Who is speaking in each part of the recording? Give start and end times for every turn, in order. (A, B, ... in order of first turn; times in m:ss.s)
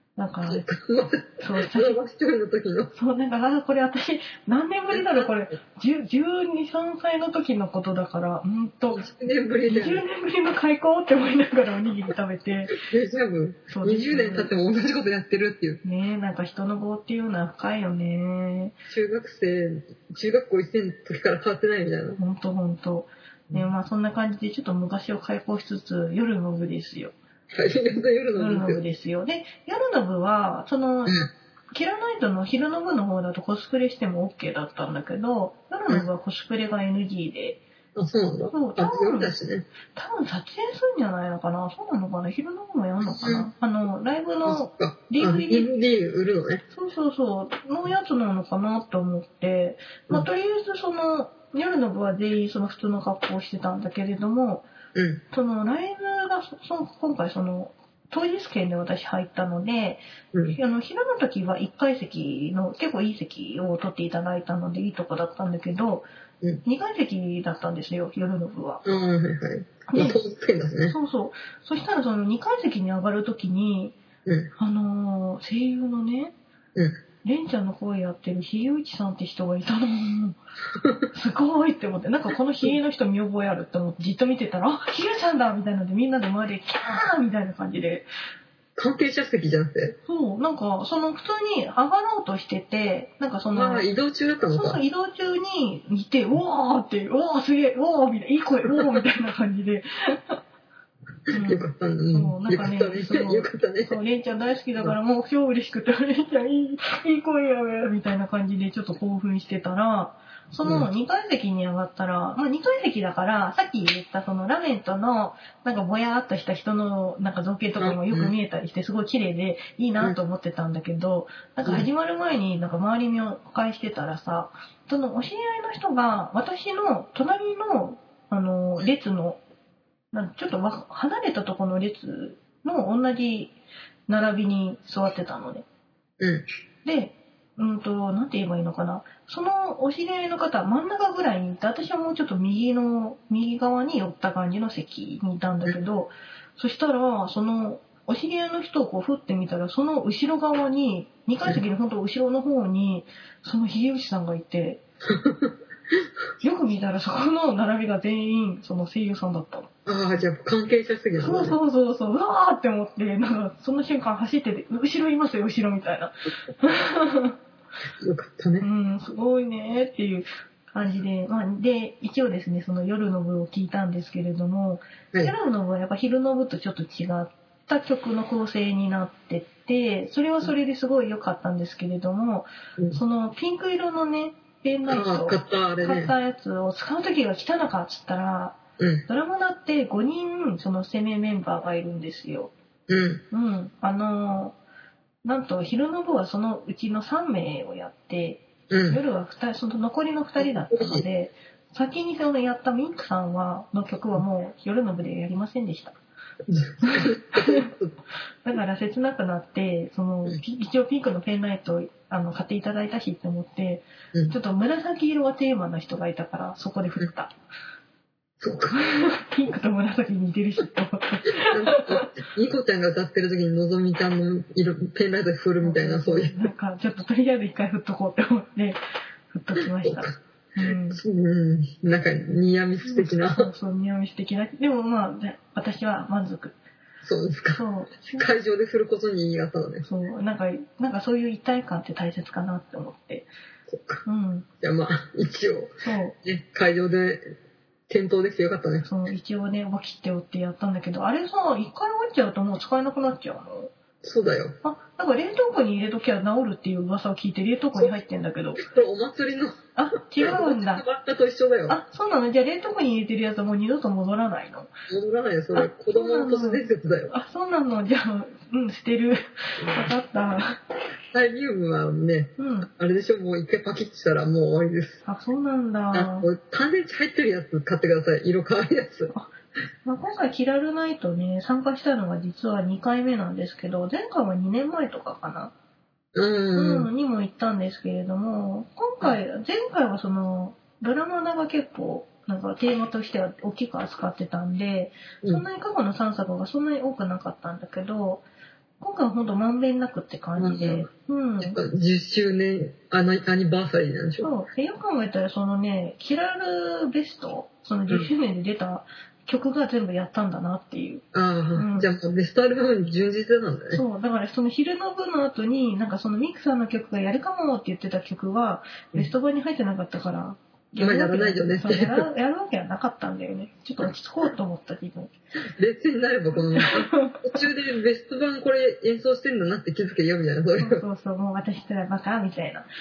0:00.2-0:00.6 A
0:00.5-0:02.9 B
0:01.4-0:02.0 A
0:02.9-0:09.1 A
0:04.9-0:05.6 B
0:08.9-0:10.0 B
0:09.7-0:12.8 A
0:12.7-0:15.8 B
0:13.7-0:14.5 A
0:15.8-0:18.8 A
0:18.9-0:22.2 B
0:22.2-0:27.1 A
0:27.5-0:28.8 B
0:28.4-0:31.2 A
0:31.7-0:37.6 A
0:38.0-0:39.7 B
0:38.5-0:39.4 A
0:39.9-0:45.7 A
0:43.0-0:43.5 B
0:44.4-0:46.6 B
0:46.7-0:54.7 A
0:54.9-0:55.2 B
0:55.3-1:06.1 A
1:06.6-1:08.8 A
1:08.8-1:11.0 B
1:09.9-1:10.2 A
1:10.9-1:14.0 A
1:14.3-1:14.5 B
1:14.6-1:16.4 A
1:17.2-1:20.4 A
1:21.1-1:28.1 A
1:28.8-1:30.0 B
1:30.1-1:33.9 A
1:33.5-1:34.8 B
1:34.5-1:40.4 A
1:41.3-2:09.4 A
1:41.3-1:44.0 B
1:50.6-1:50.9 B
1:57.8-1:58.3 B
2:10.1-2:13.6 A
2:14.1-2:15.7 A
2:16.2-2:16.4 B
2:16.8-2:34.8 A
2:35.1-2:35.5 B
2:36.4-2:39.7 A
2:39.9-2:41.6 B
2:41.2-2:47.4 A
2:48.0-2:48.7 B
2:48.6-3:12.5 A
3:04.9-3:06.1 B
3:08.8-3:09.1 B
3:12.9-3:13.2 B
3:13.3-3:14.6 A
3:15.2-3:26.0 A
3:18.7-3:19.0 B
3:20.4-3:21.0 B
3:26.5-3:28.0 B
3:26.8-3:27.7 A
3:28.4-3:37.3 A
3:38.4-3:38.8 B
3:38.7-3:42.1 A
3:41.4-3:46.5 B
3:45.6-3:48.8 A
3:49.3-3:51.0 A
3:49.8-3:53.5 B
3:52.8-3:56.6 A
3:57.0-3:59.9 B
3:57.5-3:58.3 A
3:59.8-4:03.3 A
4:03.7-4:04.0 B
4:04.0-4:04.5 A
4:04.6-4:05.7 B
4:05.8-4:06.2 A
4:06.2-4:07.3 B
4:07.9-4:08.9 B
4:08.8-4:13.7 A
4:14.0-4:14.6 B
4:14.6-4:18.6 A
4:18.6-4:19.6 B
4:19.8-4:20.8 A
4:20.1-4:21.8 B
4:21.7-4:24.7 A
4:24.9-4:27.1 B
4:25.5-4:30.6 A
4:29.6-4:29.9 B
4:31.1-4:35.0 B
4:32.4-4:32.7 A
4:35.0-4:36.3 A
4:35.9-4:39.1 B
4:39.8-4:45.5 A
4:46.2-4:46.9 B
4:46.6-4:58.2 A
4:58.8-5:01.6 A
5:00.4-5:00.9 B
5:01.4-5:04.3 B
5:04.2-5:11.0 A
5:11.1-5:13.8 B
5:11.6-5:11.9 A
5:13.7-5:25.1 A
5:20.8-5:22.1 B
5:25.6-5:30.8 B
5:26.6-5:27.4 A
5:30.6-5:32.7 A